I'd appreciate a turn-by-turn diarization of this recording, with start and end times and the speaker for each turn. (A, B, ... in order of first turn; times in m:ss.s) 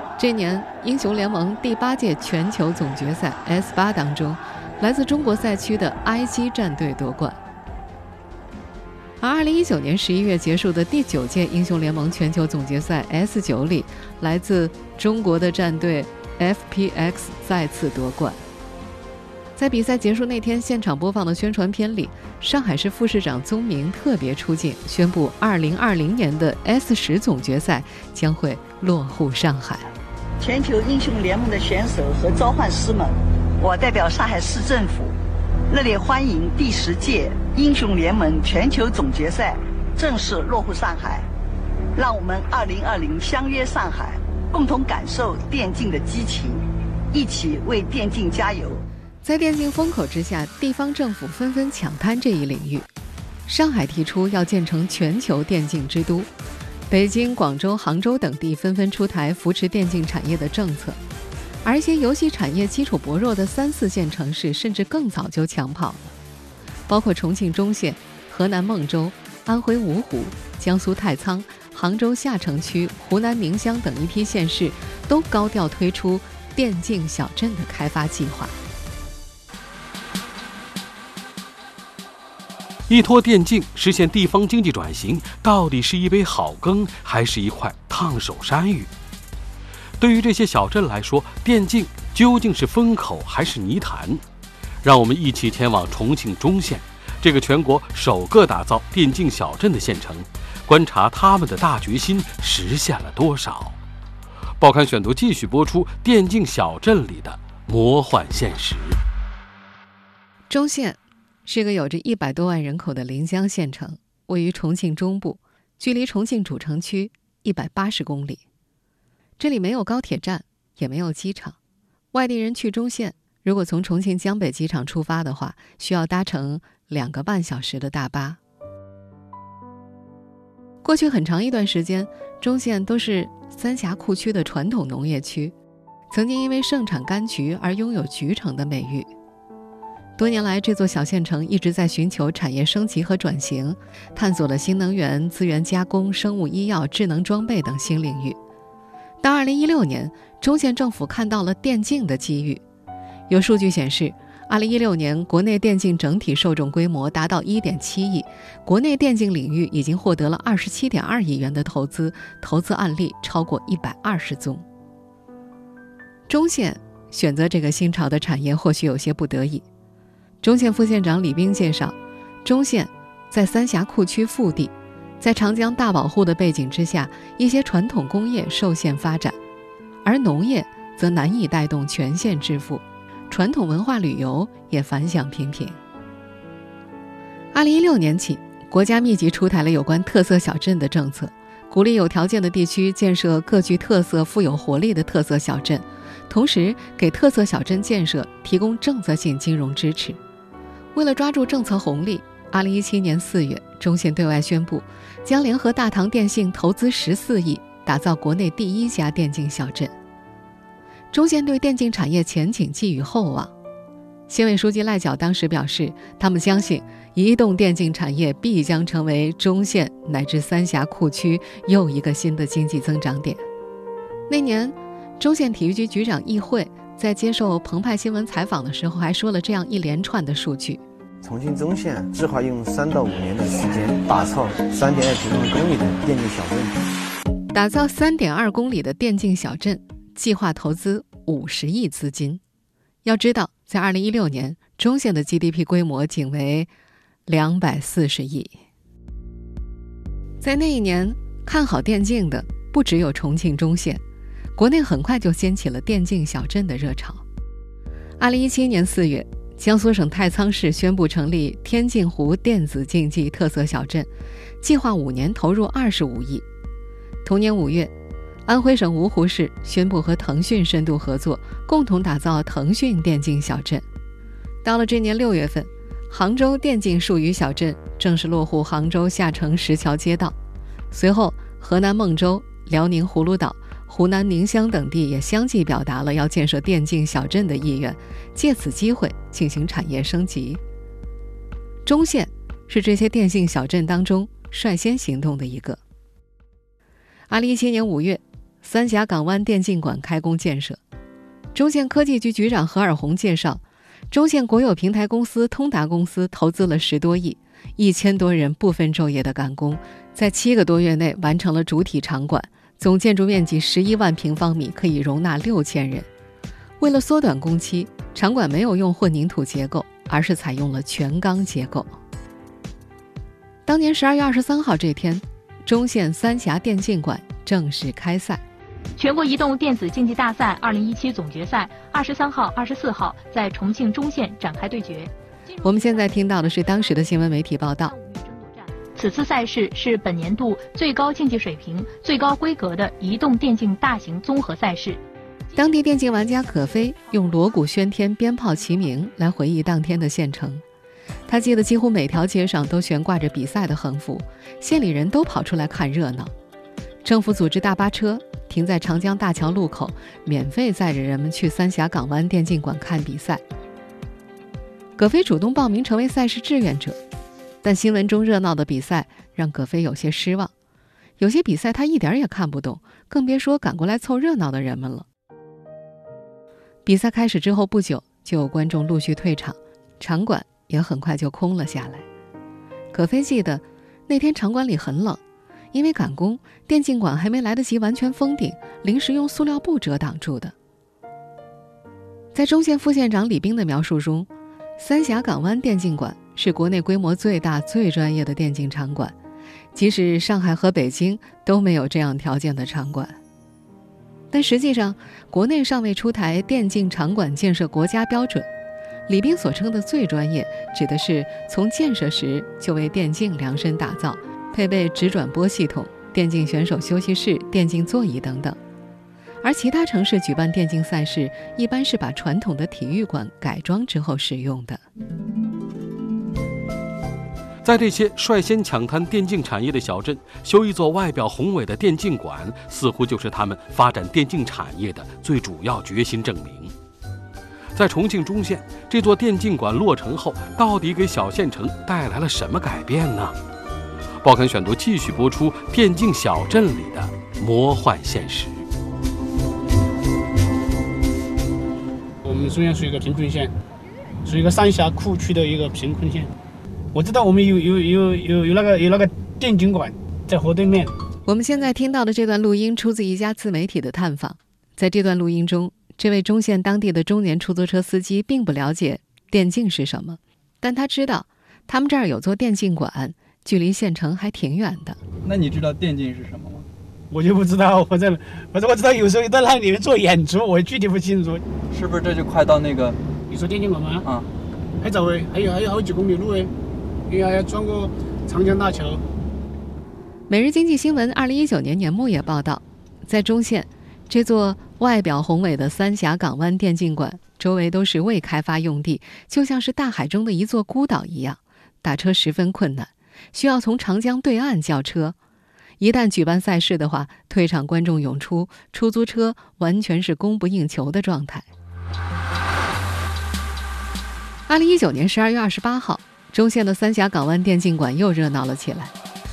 0:00.2-0:07.4 A
0:09.2-0:18.4 A
0:19.6-0:29.9 A
0:30.4-0:35.2 B
0:35.7-0:41.3 B
0:42.0-0:46.6 B
0:47.1-0:48.8 B
0:49.2-0:52.9 A
0:53.5-0:56.3 A
0:56.9-1:01.0 A
1:01.6-1:06.1 A
1:06.9-1:18.6 A
1:22.9-1:28.9 C
1:30.0-1:34.2 C
1:34.8-1:43.8 C
1:44.6-1:49.0 C
1:50.5-1:58.4 A
1:59.4-2:01.6 A
2:02.1-2:08.4 A
2:10.8-2:15.5 A
2:16.1-2:19.1 A
2:20.2-2:28.4 A
2:29.2-2:32.6 A
2:33.3-2:44.6 A
2:46.3-2:49.6 A
2:50.4-2:59.4 A
3:00.0-3:05.8 A
3:07.5-3:20.2 A
3:21.0-3:29.9 A
3:31.1-3:33.5 A
3:34.3-3:43.4 A
3:44.3-3:50.8 A
3:51.2-3:56.8 D
3:57.5-4:02.4 A
4:03.0-4:06.7 A
4:07.3-4:08.6 A
4:10.4-4:14.0 A
4:14.6-4:17.2 A
4:18.2-4:24.1 A
4:24.6-4:26.4 A
4:27.2-4:27.9 A
4:28.5-4:33.8 A
4:34.6-4:40.4 A
4:40.9-4:50.6 A
4:51.9-4:55.8 A
4:57.3-5:00.8 A
5:01.6-5:16.1 A
5:16.8-5:21.9 A
5:23.7-5:28.4 A
5:29.0-5:36.6 E
5:35.6-5:37.9 A
5:37.8-5:45.0 E
5:45.6-5:50.6 A
5:51.3-5:56.3 A
5:57.0-6:03.4 A
6:05.0-6:07.0 A
6:07.6-6:10.5 A
6:11.2-6:15.1 A
6:16.9-6:22.0 A
6:22.9-6:25.2 A
6:25.7-6:30.5 A
6:32.3-6:39.1 A
6:39.7-6:43.2 A
6:44.3-6:48.5 A
6:49.1-6:58.6 A
6:59.4-7:04.8 A
7:07.6-7:16.7 C
7:17.7-7:23.4 C
7:24.2-7:28.6 C
7:32.2-7:33.5 F
7:34.2-7:36.3 F
7:36.9-7:40.9 F
7:41.3-7:55.0 A
7:55.2-7:56.7 G
7:57.1-8:01.4 F
8:01.7-8:03.0 G
8:03.3-8:04.1 F
8:04.8-8:06.5 F
8:07.1-8:09.0 F
8:10.3-8:25.2 A
8:25.8-8:31.5 A
8:34.5-8:38.9 A